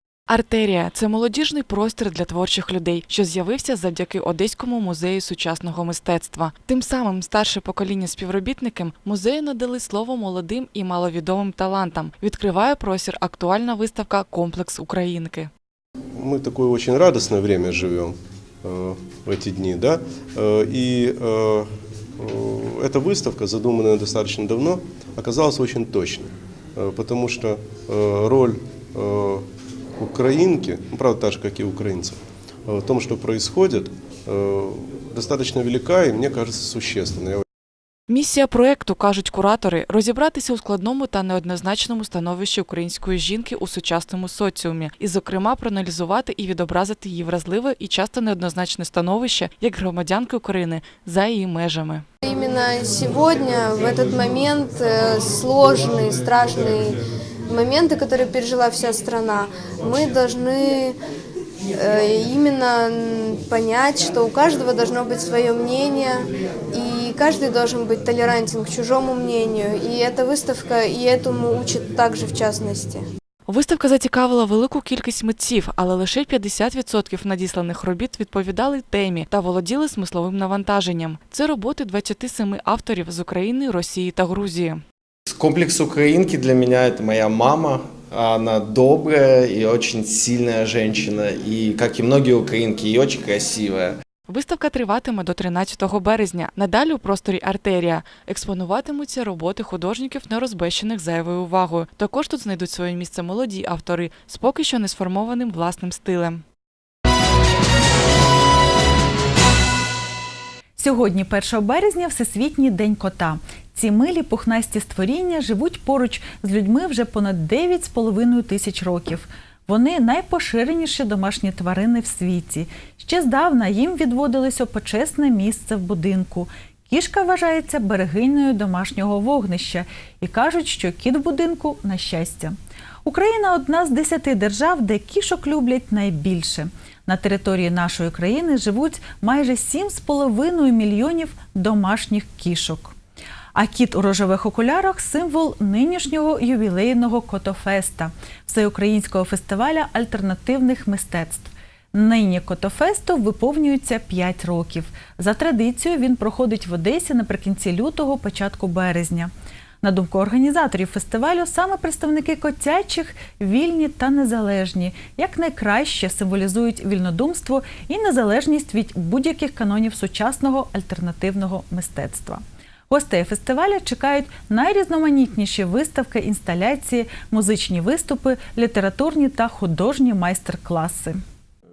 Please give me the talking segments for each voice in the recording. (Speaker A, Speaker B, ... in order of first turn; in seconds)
Speaker A: 0.3-15.5, 38.1-52.0, 73.5-84.8, 94.3-106.4
Speaker B: 16.1-29.4, 30.0-37.4
Speaker C: 52.2-57.0, 57.5-60.9, 61.8-73.1
Speaker D: 85.3-94.0
Speaker E: 110.8-142.9, 143.5-159.3, 159.8-181.2